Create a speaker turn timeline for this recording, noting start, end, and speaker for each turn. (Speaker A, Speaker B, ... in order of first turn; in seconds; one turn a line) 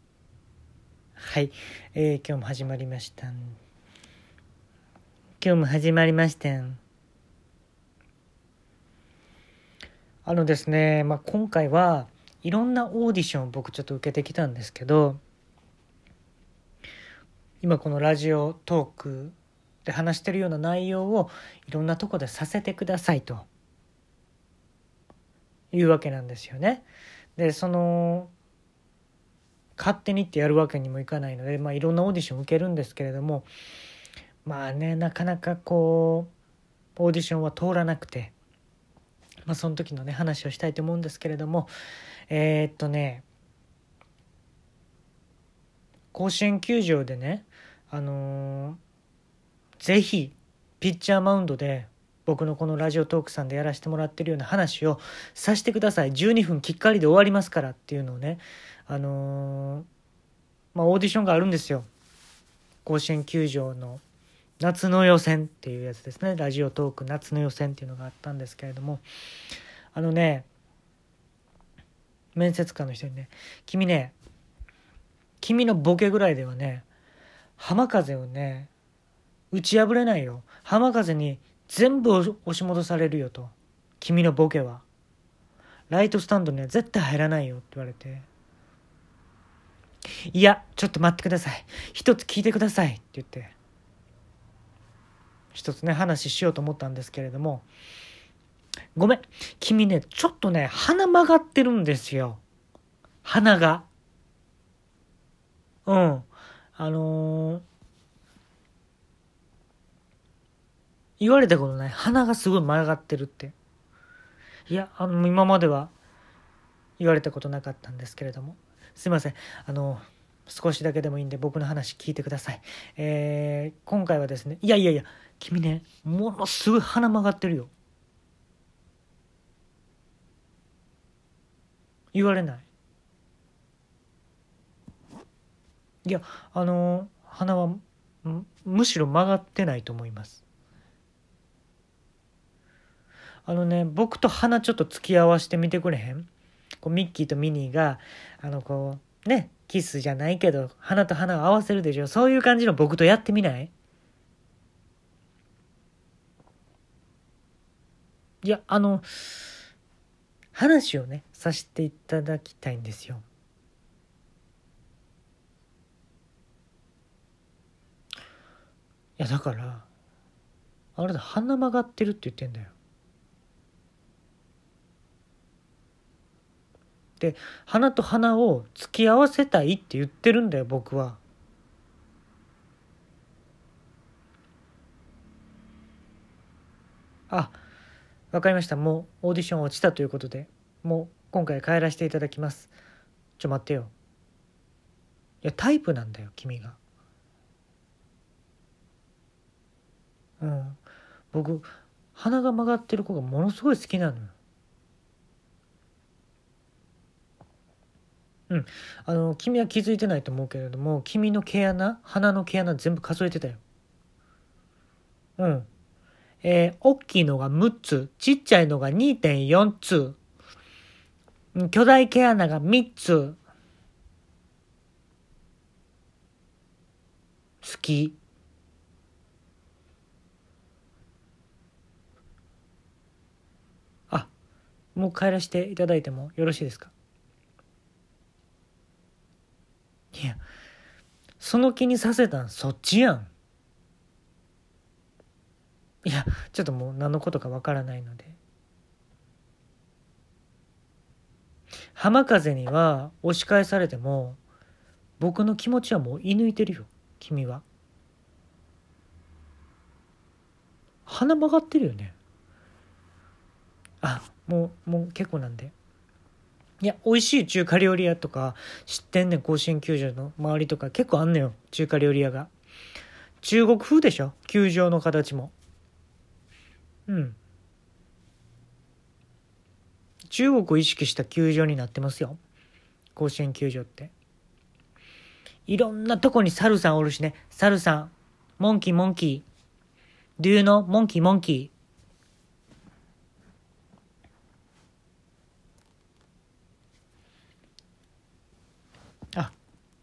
Speaker A: 1.2-3.6
Speaker A: 5.4-6.8
Speaker A: 10.2-15.2
Speaker A: 17.6-23.5
Speaker A: 25.7-28.3
Speaker A: 29.8-33.5
Speaker A: 34.5-36.3
Speaker A: 37.0-38.3
Speaker A: 39.5-41.7
Speaker A: 42.3-43.3
Speaker A: 46.1-48.8
Speaker A: 49.8-59.9
Speaker A: 60.7-61.9
Speaker A: 62.9-64.0
Speaker A: 64.6-69.0
Speaker A: 69.9-70.5
Speaker A: 72.3-74.2
Speaker A: 75.4-76.9
Speaker A: 77.6-78.7
Speaker A: 79.5-84.8
Speaker A: 85.9-88.3
Speaker A: 90.3-93.5
Speaker A: 95.5-97.7
Speaker A: 99.0-102.4
Speaker A: 103.2-103.9
Speaker A: 105.9-107.7
Speaker A: 111.2-113.5
Speaker A: 114.7-115.9
Speaker A: 117.0-127.7
Speaker A: 132.1-132.7
Speaker A: 136.1-140.4
Speaker A: 143.5-146.3
Speaker A: 146.8-153.7
Speaker A: 158.4-159.3
Speaker A: 160.6-163.2
Speaker A: 169.2-169.9
Speaker A: 171.0-172.7
Speaker A: 177.2-181.2
Speaker A: 187.3-187.6
Speaker A: 188.3-192.7
Speaker A: 193.4-193.9
Speaker A: 195.4-196.8
Speaker A: 200.4-200.8
Speaker A: 201.3-204.3
Speaker A: 208.5-213.6
Speaker A: 215.4-215.7
Speaker A: 216.4-220.2
Speaker A: 221.5-223.4
Speaker A: 227.6-228.2
Speaker A: 234.9-236.9
Speaker A: 240.1-240.4
Speaker A: 241.4-243.3
Speaker A: 246.0-248.4
Speaker A: 251.9-254.4
Speaker A: 255.2-257.6
Speaker A: 261.1-262.2
Speaker A: 264.0-265.7
Speaker A: 266.8-272.5
Speaker A: 273.4-275.6
Speaker A: 277.1-277.4
Speaker A: 280.3-282.4
Speaker A: 283.1-284.1
Speaker A: 285.7-289.4
Speaker A: 290.4-291.7